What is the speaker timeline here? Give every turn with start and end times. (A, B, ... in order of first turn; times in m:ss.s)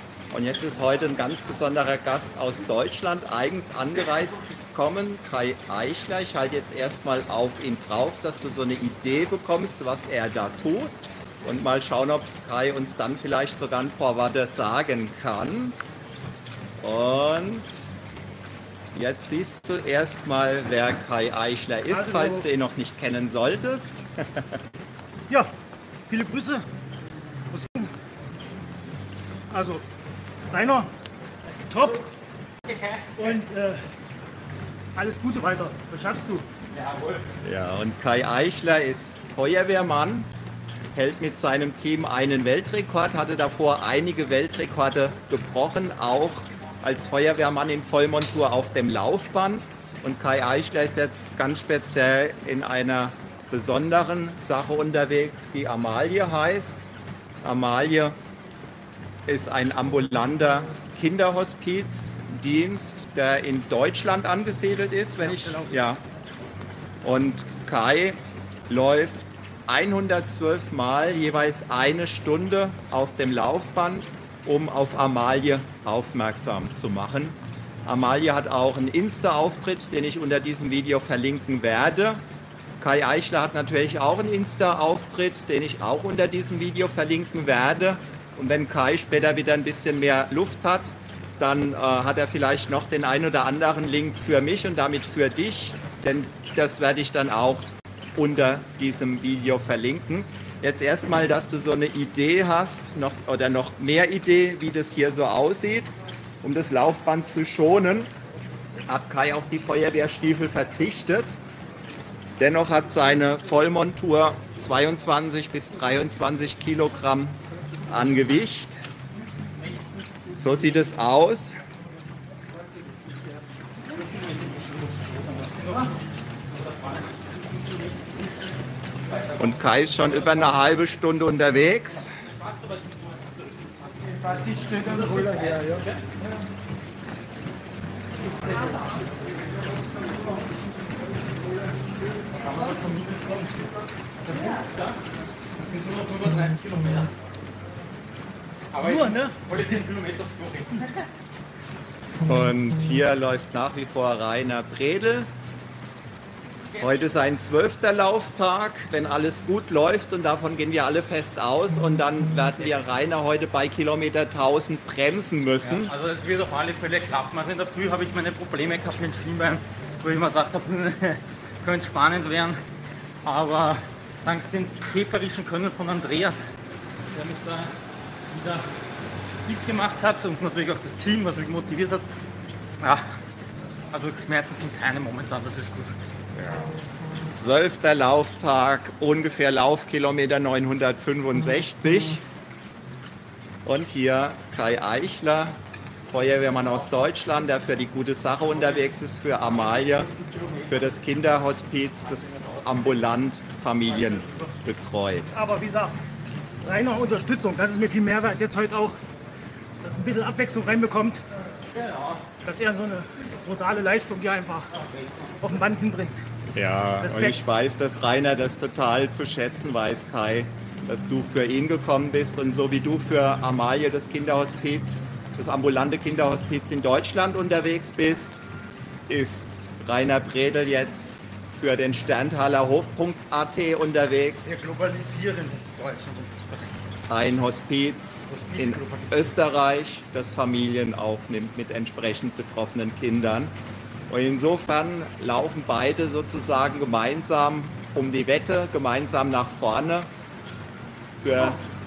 0:00.3-0:15.8 A
0:16.8-0:17.7 A
0:18.9-0:24.6 A
0:21.9-0:22.4 B
0:26.1-0:26.6 B
0:27.5-0:27.9 B
0:29.5-0:29.8 B
0:30.5-0:30.9 B
0:31.7-0:32.1 B
0:32.7-0:33.2 C
0:33.2-0:33.8 B
0:34.9-0:36.5 B
0:36.7-0:37.3 C
0:37.4-0:40.3 A
0:40.9-0:56.8 A
0:57.4-0:58.2 A
0:59.3-1:06.0 A
1:05.2-1:05.7 C
1:07.0-1:22.2 A
1:22.8-1:45.9 A
1:46.4-1:48.1 A
1:48.9-1:51.3 A
1:52.4-1:58.7 A
2:00.3-2:01.6 A
2:03.8-2:06.0 C
2:06.5-2:08.6 C
2:09.1-2:09.5 C
2:09.4-2:12.1 A
2:10.0-2:10.3 C
2:12.1-2:16.0 C
2:14.6-2:15.0 B
2:22.3-2:23.7 C
2:24.2-2:25.0 C
2:25.6-2:27.1 C
2:28.7-2:31.0 C
2:28.8-2:29.4 B
2:32.2-2:35.3 A
2:36.7-2:37.0 C
2:36.8-2:45.9 A
2:45.6-2:52.6 C
2:53.2-2:56.5 C
2:57.1-2:57.7 C
2:58.3-2:58.7 C
2:59.4-3:02.1 C
3:02.8-3:03.0 C
3:03.9-3:05.9 C
3:06.4-3:06.7 A
3:07.3-3:12.2 A
3:13.6-3:15.6 A
3:16.1-3:20.1 A
3:20.2-3:20.5 C
3:20.6-3:25.3 A
3:25.3-3:26.0 B
3:26.6-3:29.0 B
3:29.8-3:31.2 B
3:31.7-3:32.2 C
3:32.4-3:34.7 B
3:34.8-3:35.3 C
3:35.4-3:36.2 B
3:36.5-3:48.4 A
3:37.0-3:37.4 B
3:49.1-3:54.5 A
3:54.4-3:56.7 C
3:57.1-4:03.5 A
3:58.3-3:59.4 C
4:04.1-4:10.1 A
4:11.2-4:11.6 A